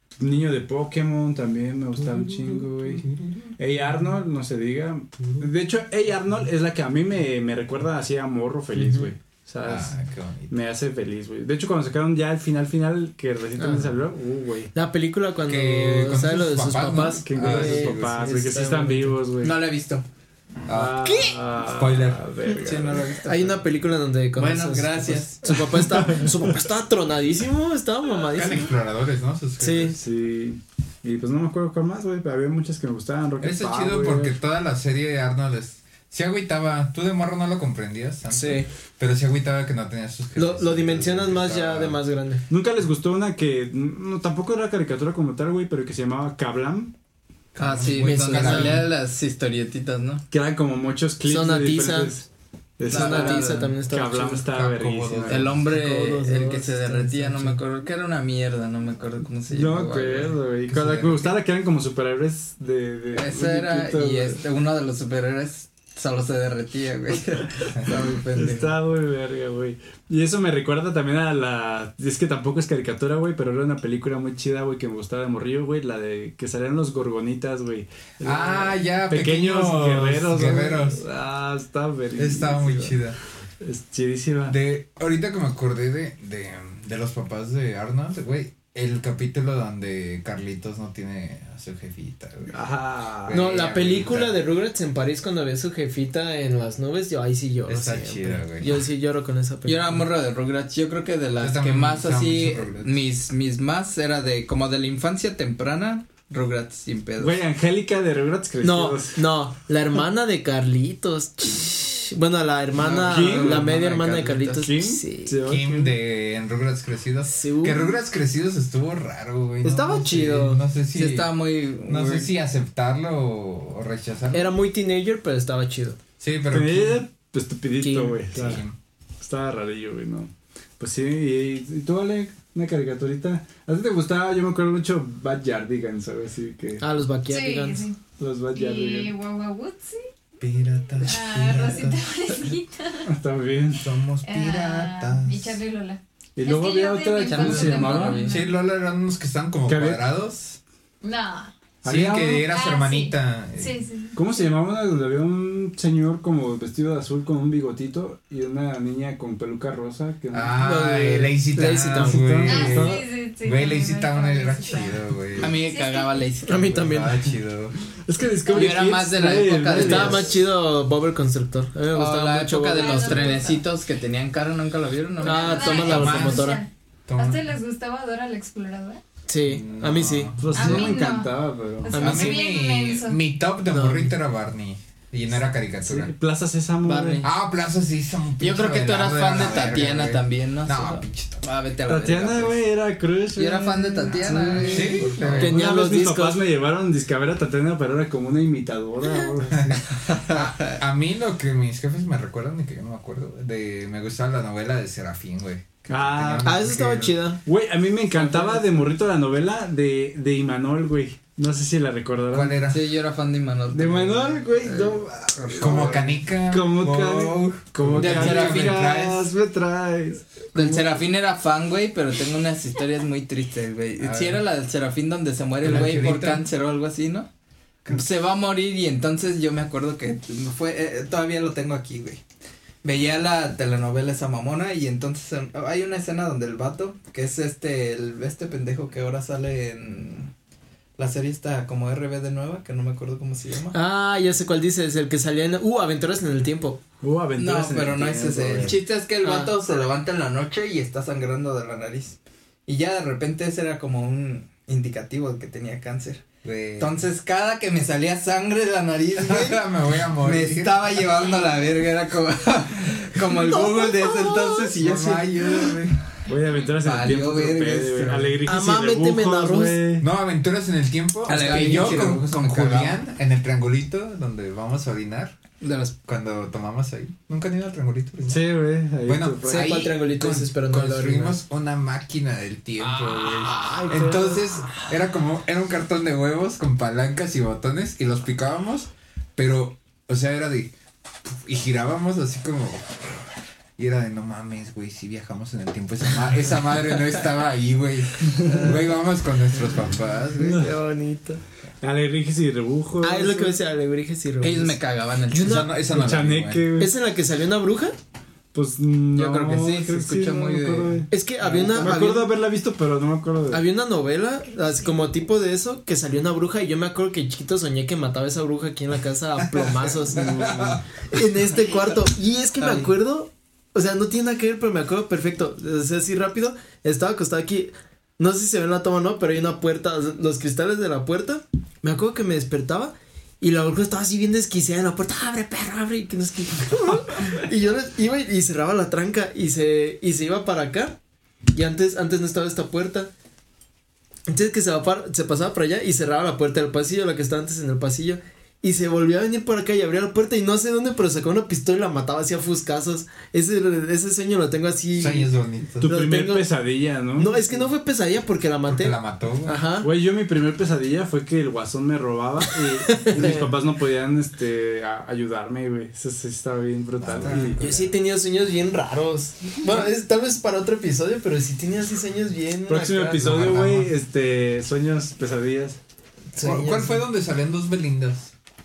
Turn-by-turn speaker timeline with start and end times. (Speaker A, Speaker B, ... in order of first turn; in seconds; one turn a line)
Speaker A: 0.2-10.0
Speaker B: 2.0-3.5
Speaker C: 8.8-9.1
Speaker B: 9.6-10.5
Speaker A: 10.5-14.7
Speaker C: 13.6-14.0
Speaker C: 14.7-19.2
Speaker B: 15.5-18.3
Speaker A: 17.2-19.6
Speaker D: 19.4-20.1
Speaker B: 20.7-22.2
Speaker A: 20.7-23.1
Speaker D: 22.5-23.6
Speaker C: 23.2-28.7
Speaker D: 24.4-25.3
Speaker A: 25.5-26.5
Speaker B: 28.3-30.0
Speaker C: 29.6-30.0
Speaker A: 30.0-34.4
Speaker B: 33.4-42.0
Speaker C: 38.3-38.7
Speaker C: 40.4-42.4
Speaker A: 42.5-46.9
Speaker B: 47.5-48.9
Speaker D: 47.6-50.2
Speaker C: 48.0-48.8
Speaker A: 50.3-52.3
Speaker C: 51.3-52.1
Speaker A: 52.8-55.6
Speaker D: 52.9-53.8
Speaker C: 52.9-54.5
Speaker B: 54.5-55.6
Speaker D: 55.3-60.4
Speaker C: 55.6-57.6
Speaker A: 59.5-64.4
Speaker B: 60.7-61.4
Speaker D: 63.1-68.7
Speaker A: 68.3-83.0
Speaker B: 78.2-81.0
Speaker B: 82.2-83.2
Speaker A: 83.6-84.6
Speaker B: 84.5-92.6
Speaker A: 92.5-93.4
Speaker B: 93.2-94.4
Speaker C: 93.3-100.0
Speaker B: 97.7-98.8
Speaker D: 99.7-107.4
Speaker B: 101.4-103.0
Speaker A: 107.2-109.2
Speaker C: 108.6-115.4
Speaker D: 112.8-114.6
Speaker A: 112.9-113.8
Speaker A: 114.5-116.0
Speaker B: 115.4-121.3
Speaker C: 117.3-118.0
Speaker C: 119.6-120.6
Speaker D: 120.9-122.3
Speaker B: 121.8-124.5
Speaker C: 124.3-126.0
Speaker B: 126.2-127.0
Speaker A: 126.5-128.6
Speaker C: 127.8-128.6
Speaker B: 128.3-128.8
Speaker A: 129.2-136.8
Speaker C: 136.8-137.9
Speaker E: 137.3-138.0
Speaker A: 138.2-139.1
Speaker E: 138.5-140.0
Speaker B: 140.4-142.3
Speaker E: 141.0-143.1
Speaker A: 143.1-143.9
Speaker B: 143.8-145.6
Speaker E: 144.2-148.5
Speaker A: 146.4-148.2
Speaker D: 147.3-148.5
Speaker B: 148.3-150.6
Speaker A: 149.7-150.0
Speaker E: 151.0-151.5
Speaker A: 151.8-152.5
Speaker B: 151.8-153.8
Speaker E: 152.5-154.2
Speaker A: 154.2-160.6
Speaker B: 160.3-165.6
Speaker C: 160.6-162.5
Speaker A: 161.9-163.0
Speaker E: 162.4-165.0
Speaker D: 165.4-166.7
Speaker E: 165.6-166.2
Speaker C: 166.5-167.3
Speaker B: 166.5-167.7
Speaker A: 168.1-170.4
Speaker D: 168.5-170.4
Speaker C: 169.7-173.4
Speaker D: 171.9-176.1
Speaker E: 172.7-173.7
Speaker C: 175.2-176.6
Speaker E: 175.2-179.0
Speaker B: 175.8-177.4
Speaker C: 179.3-181.0
Speaker B: 179.5-180.8
Speaker A: 180.4-182.0
Speaker E: 180.5-183.2
Speaker C: 181.9-182.5
Speaker B: 182.0-186.1
Speaker C: 183.7-184.1
Speaker A: 185.8-187.2
Speaker D: 186.8-187.3
Speaker B: 187.2-191.4
Speaker D: 188.4-192.6
Speaker A: 191.9-199.8
Speaker D: 193.3-195.5
Speaker B: 194.1-195.7
Speaker C: 195.4-196.4
Speaker B: 199.5-207.2
Speaker D: 200.1-200.8
Speaker A: 205.9-206.6
Speaker C: 206.4-207.4
Speaker A: 207.5-212.6
Speaker C: 208.1-208.7
Speaker B: 212.3-212.9
Speaker D: 212.7-215.9
Speaker A: 213.7-220.8
Speaker B: 215.5-219.3
Speaker D: 218.0-218.9
Speaker D: 220.6-227.3
Speaker B: 224.0-224.4
Speaker B: 225.6-226.5
Speaker A: 225.6-226.1
Speaker D: 227.9-232.2
Speaker D: 232.8-240.3
Speaker D: 241.0-243.8
Speaker C: 243.7-246.8
Speaker A: 247.0-248.8
Speaker D: 247.4-256.2
Speaker C: 249.2-249.5
Speaker B: 256.4-257.0
Speaker D: 256.8-259.6
Speaker B: 259.2-260.8
Speaker D: 260.2-265.8
Speaker C: 263.5-264.5
Speaker B: 264.8-266.0
Speaker A: 266.3-270.1
Speaker D: 266.8-268.4
Speaker C: 268.5-269.8
Speaker B: 270.0-275.4
Speaker D: 271.3-273.0
Speaker C: 271.3-272.2
Speaker D: 275.6-275.9
Speaker B: 276.1-278.4
Speaker A: 278.3-279.9
Speaker B: 279.0-290.7
Speaker C: 279.4-281.4
Speaker D: 282.8-284.0
Speaker C: 283.6-284.8
Speaker B: 291.2-293.3
Speaker B: 293.8-300.7
Speaker D: 298.4-298.8
Speaker C: 298.4-298.8
Speaker C: 300.4-301.4
Speaker A: 301.8-303.6
Speaker C: 303.0-305.7
Speaker D: 304.4-305.6
Speaker B: 305.4-306.7
Speaker A: 305.9-306.9
Speaker C: 306.8-308.0
Speaker A: 308.5-313.7
Speaker D: 309.1-311.1
Speaker C: 311.1-312.3
Speaker C: 313.5-341.0
Speaker B: 319.4-320.8
Speaker A: 320.1-320.8
Speaker D: 322.6-322.9
Speaker C: 341.5-343.1
Speaker C: 344.3-356.5
Speaker B: 355.0-355.9
Speaker A: 355.8-357.4
Speaker C: 357.2-359.9
Speaker B: 358.6-359.7
Speaker A: 359.8-367.6
Speaker C: 362.9-363.5
Speaker B: 366.9-368.0
Speaker C: 367.3-373.9
Speaker A: 372.7-375.8
Speaker C: 376.3-377.0
Speaker B: 376.4-378.3